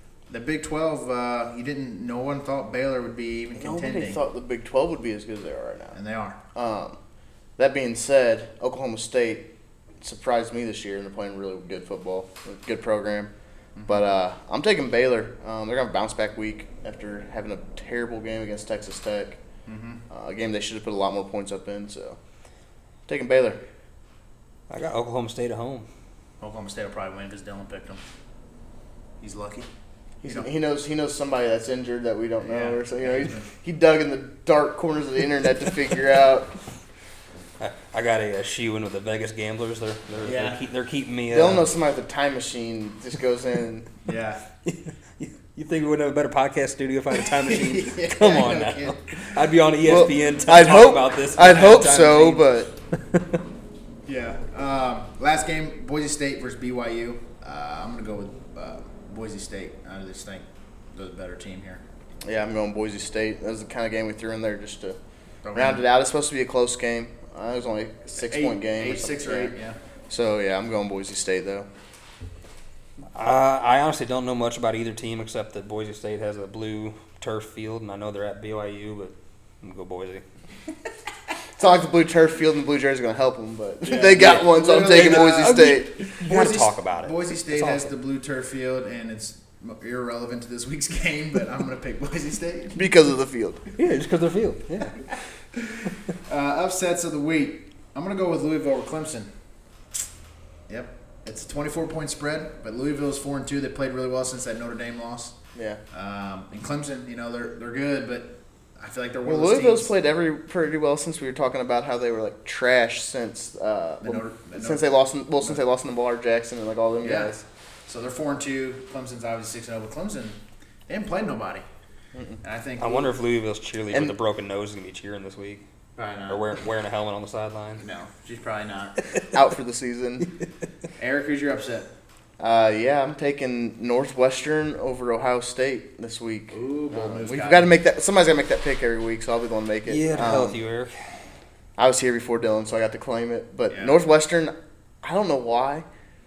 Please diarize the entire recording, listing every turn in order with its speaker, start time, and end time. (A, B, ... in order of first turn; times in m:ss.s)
0:00.3-0:04.2 A
0:03.6-0:06.0 B
0:05.9-0:06.4 A
0:06.5-0:07.0 B
0:07.6-0:09.5 B
0:10.0-0:13.3 B
0:13.8-0:14.0 A
0:13.9-0:19.4 B
0:19.7-0:20.0 A
0:20.1-0:22.2 B
0:23.1-0:23.6 B
0:24.7-0:25.9 C
0:26.4-0:28.0 A
0:29.2-0:29.7 A
0:30.2-0:36.5 B
0:30.2-0:30.5 A
0:32.4-0:33.5 A
0:37.6-0:41.7 C
0:40.2-0:40.6 A
0:41.3-0:43.9 B
0:44.0-0:44.4 A
0:44.6-0:53.3 C
0:47.2-0:49.3 A
0:49.8-0:52.7 B
0:54.1-1:01.8 A
1:02.2-1:05.0 B
1:05.4-1:05.8 A
1:05.5-1:09.5 B
1:08.2-1:09.8 A
1:10.1-1:11.7 B
1:13.1-1:20.2 C
1:21.6-1:26.0 B
1:23.8-1:32.8 A
1:24.2-1:27.9 C
1:32.8-1:33.6 B
1:33.8-1:35.0 C
1:36.3-1:39.3 A
1:40.7-1:45.3 A
1:45.5-1:45.8 B
1:45.9-1:49.9 A
1:49.2-1:57.4 B
1:54.0-1:54.9 A
1:57.0-1:57.4 A
1:57.9-2:01.6 A
2:02.1-2:02.4 B
2:02.4-2:03.1 A
2:02.8-2:05.6 C
2:06.0-2:06.5 A
2:06.3-2:07.8 C
2:07.8-2:09.0 A
2:09.3-2:10.3 B
2:11.0-2:11.9 A
2:12.4-2:20.6 B
2:16.5-2:17.8 A
2:19.8-2:21.0 C
2:21.8-2:25.8 B
2:23.7-2:24.0 A